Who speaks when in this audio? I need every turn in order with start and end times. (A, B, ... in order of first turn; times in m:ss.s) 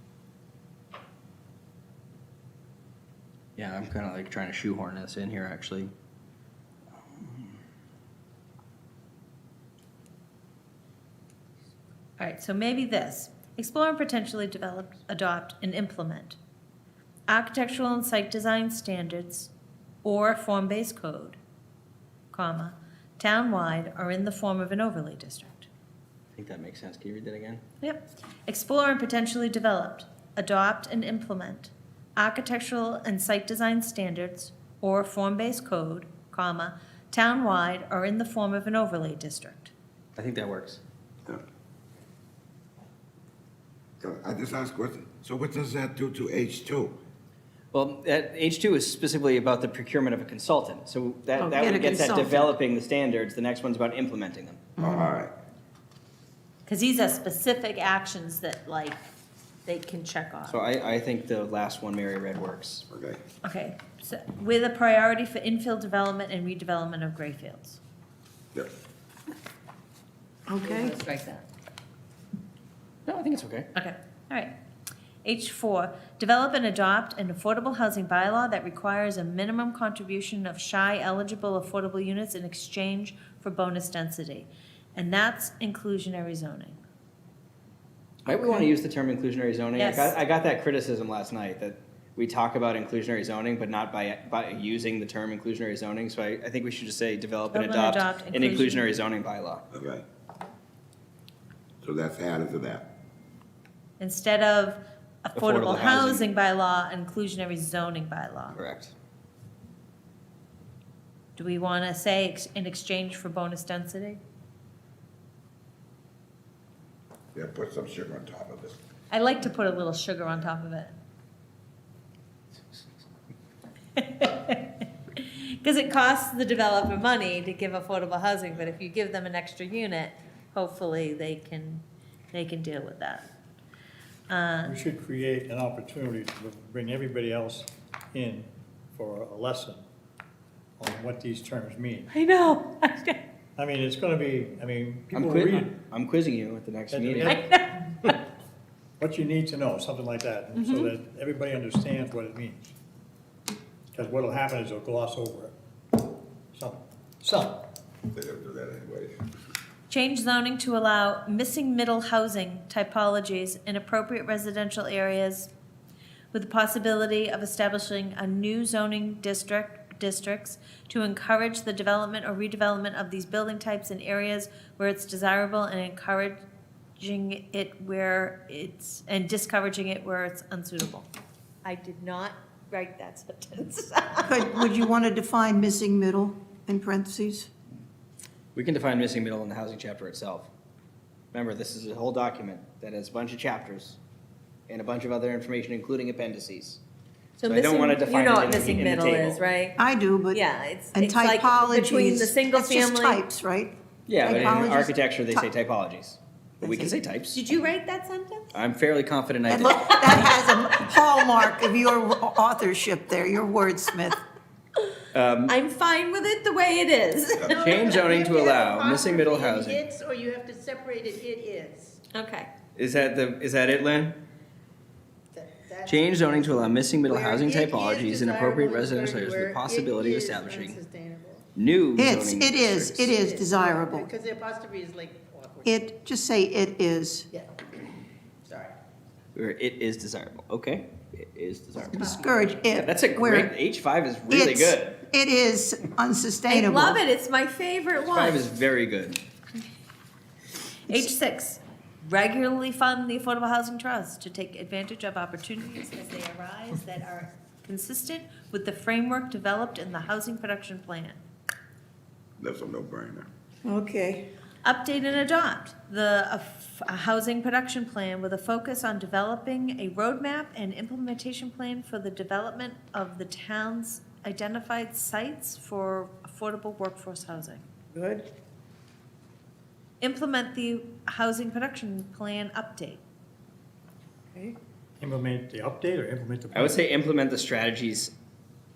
0:03.6-0:05.9 A
0:07.2-0:07.5 A
0:12.2-0:16.4 B
0:17.3-0:19.5 B
0:20.0-0:21.4 B
0:22.3-0:25.7 B
0:26.3-0:27.6 A
0:27.8-0:39.7 B
0:40.2-0:40.8 A
0:44.0-0:46.9 C
0:47.7-0:54.6 A
0:51.4-0:52.5 D
0:54.8-0:55.1 D
0:54.8-0:55.3 C
0:56.6-0:59.0 B
0:59.6-1:00.6 B
1:00.5-1:02.8 A
1:02.9-1:03.2 C
1:03.4-1:07.8 B
1:10.5-1:10.9 D
1:10.6-1:11.4 B
1:13.1-1:13.7 A
1:13.7-1:14.5 B
1:15.2-1:26.8 B
1:28.2-1:39.6 A
1:29.8-1:30.2 B
1:37.5-1:39.0 B
1:39.7-1:40.0 C
1:41.8-1:42.8 C
1:44.0-1:48.6 B
1:45.3-1:46.3 A
1:48.5-1:48.9 A
1:51.4-1:54.2 B
1:57.3-1:58.8 C
1:59.1-2:01.0 B
2:04.0-2:13.2 B
2:14.3-2:14.8 B
2:14.7-2:19.8 E
2:20.8-2:22.0 E
2:22.1-2:23.2 B
2:23.6-2:25.6 E
2:25.1-2:27.4 A
2:27.2-2:28.1 B
2:29.0-2:32.7 E
2:30.6-2:30.9 B
2:33.9-2:35.5 E
2:36.5-2:37.6 E
2:38.1-2:39.2 C
2:39.9-2:45.5 B
2:46.3-2:56.4 B
2:57.0-3:01.1 B
3:01.6-3:04.7 B
3:04.2-3:07.5 D
3:08.5-3:10.5 A
3:11.3-3:14.0 A
3:14.7-3:16.8 A
3:17.4-3:19.8 B
3:17.4-3:19.4 A
3:19.8-3:20.4 D
3:20.3-3:23.2 B
3:20.9-3:25.0 D
3:24.1-3:27.4 A
3:26.6-3:26.9 D
3:27.3-3:28.6 B
3:28.5-3:30.0 A
3:29.5-3:34.2 D
3:29.7-3:30.2 B
3:35.1-3:35.5 A
3:35.5-3:38.1 B
3:37.4-3:39.6 C
3:37.5-3:39.8 A
3:38.4-3:38.8 F
3:39.6-3:42.0 F
3:42.1-3:42.5 B
3:42.8-3:44.2 A
3:45.3-3:46.6 F
3:45.8-3:50.8 A
3:47.1-3:50.7 C
3:47.1-3:51.4 F
3:51.6-3:53.1 A
3:52.0-3:54.1 D
3:53.2-3:55.7 F
3:55.6-3:57.3 D
3:58.4-3:58.7 F
3:59.3-4:02.1 A
4:01.9-4:03.5 D
4:02.7-4:05.0 A
4:04.3-4:07.0 D
4:06.5-4:08.4 B
4:08.0-4:09.2 A
4:10.9-4:21.2 B
4:22.4-4:23.3 C
4:23.6-4:24.3 D
4:24.6-4:37.6 B
4:37.9-4:38.2 D
4:40.0-4:43.0 B
4:45.0-4:46.7 E
4:46.5-4:48.1 A